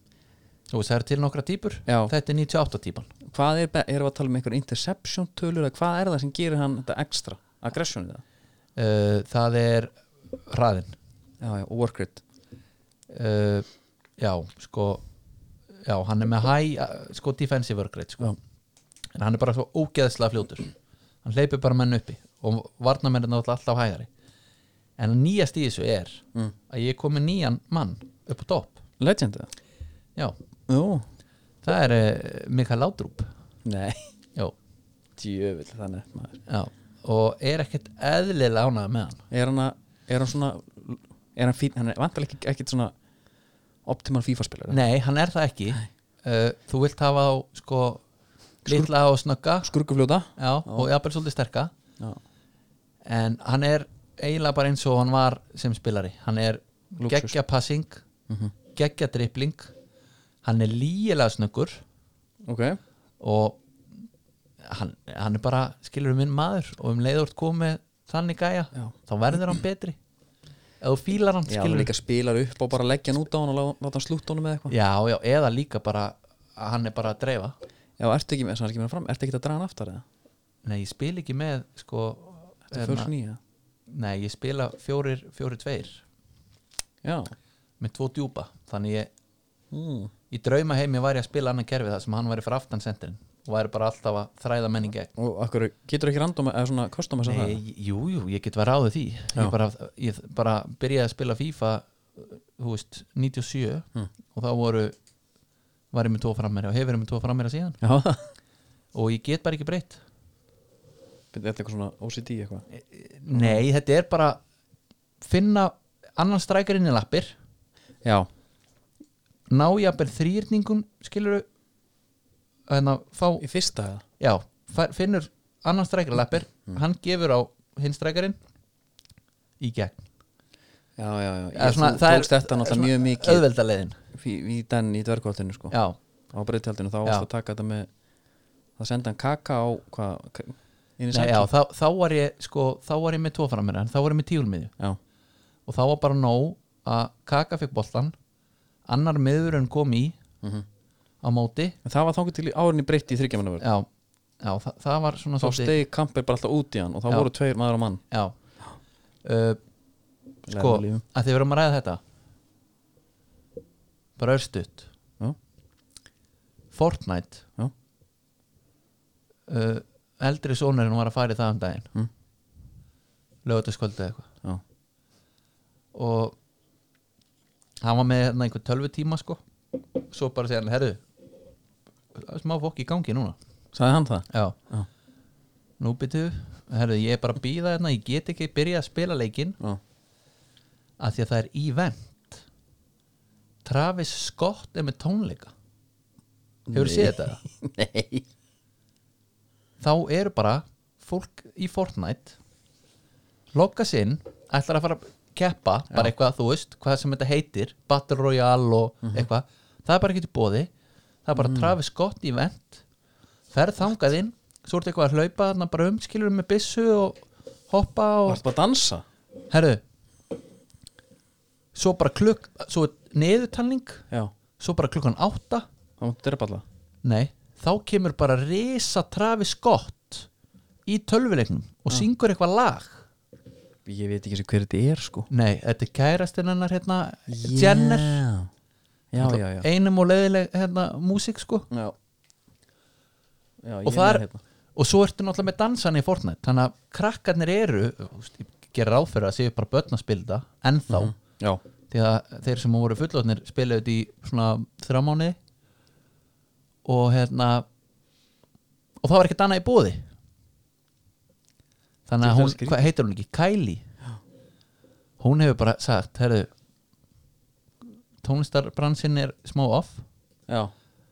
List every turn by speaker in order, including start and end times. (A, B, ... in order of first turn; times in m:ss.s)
0:00.7-0:03.1 A
0:01.8-0:02.1 B
0:03.2-0:08.2 B
0:08.8-0:11.0 A
0:11.4-0:12.2 B
0:13.1-0:13.6 A
0:14.2-0:15.0 A
0:15.8-0:18.3 A
0:19.1-0:20.7 A
0:21.2-0:24.1 A
0:25.0-0:28.8 A
0:29.0-0:29.5 B
0:30.7-0:31.0 B
0:31.6-0:33.3 A
0:33.6-0:34.1 B
0:35.2-0:36.4 B
0:36.4-0:39.2 A
0:39.3-0:42.9 B
0:43.8-0:44.8 B
0:44.7-0:48.0 A
0:48.6-0:49.7 A
0:48.6-0:48.9 B
0:49.6-0:50.9 B
0:50.4-0:51.7 A
0:53.0-0:58.0 A
0:57.0-0:57.4 B
0:58.7-0:59.7 A
1:00.4-1:01.8 A
1:02.4-1:02.8 B
1:03.2-1:03.6 A
1:04.6-1:10.0 A
1:10.8-1:11.9 A
1:11.5-1:14.7 B
1:14.7-1:17.6 A
1:18.0-1:20.0 B
1:20.6-1:23.1 A
1:22.7-1:23.4 B
1:23.9-1:26.0 A
1:27.0-1:27.3 B
1:27.8-1:29.1 A
1:29.7-1:30.1 B
1:30.3-1:35.1 A
1:35.2-1:37.6 B
1:37.2-1:44.9 A
1:45.9-1:47.8 A
1:47.8-1:48.3 B
1:48.9-1:50.0 A
1:51.3-1:52.6 B
1:52.7-1:54.4 A
1:53.3-1:53.6 B
1:55.2-1:57.3 A
1:58.0-1:58.3 B
1:59.5-2:01.4 A
2:02.7-2:03.4 A
2:03.4-2:04.0 B
2:04.2-2:08.4 A
2:09.6-2:10.0 A
2:11.0-2:13.4 B
2:11.5-2:14.0 A
2:14.1-2:15.8 B
2:15.7-2:16.0 A
2:16.3-2:17.9 B
2:18.8-2:21.5 B
2:21.1-2:24.7 A
2:25.6-2:28.1 A
2:28.8-2:30.2 A
2:31.2-2:31.8 A
2:31.8-2:33.6 B
2:33.6-2:33.9 A
2:34.4-2:35.7 A
2:35.4-2:38.0 B
2:39.2-2:39.6 A
2:40.4-2:41.0 B
2:40.5-2:42.0 A
2:44.2-2:44.9 A
2:46.7-2:47.4 A
2:49.5-2:51.9 A
2:53.4-2:54.3 A
2:55.9-2:56.4 A
2:57.8-2:59.4 A
3:00.0-3:01.0 A
3:02.1-3:03.4 A
3:03.7-3:04.9 B
3:04.3-3:04.6 A
3:05.8-3:09.6 A
3:11.0-3:12.4 A
3:13.6-3:15.5 A
3:16.7-3:18.2 B
3:16.7-3:17.4 A
3:19.8-3:22.4 A
3:23.5-3:30.7 A
3:31.2-3:32.8 A
3:31.3-3:31.8 B
3:33.5-3:38.4 A
3:38.3-3:39.0 B
3:39.5-3:39.8 A
3:41.7-3:44.0 A
3:44.6-3:45.7 A
3:46.0-3:46.6 B
3:47.0-3:50.3 A
3:50.8-3:53.0 A
3:53.8-3:55.3 B
3:55.3-3:58.2 A
3:57.3-3:58.5 B
3:59.1-3:59.7 B
3:59.2-4:01.7 A
4:01.7-4:01.9 B
4:03.6-4:04.4 B
4:03.8-4:04.2 A
4:04.7-4:11.1 A
4:10.9-4:11.6 B
4:11.9-4:15.4 A
4:16.8-4:17.6 A
4:19.0-4:20.1 A
4:22.0-4:23.8 A
4:22.2-4:22.8 B
4:25.2-4:26.5 A
4:28.2-4:30.0 A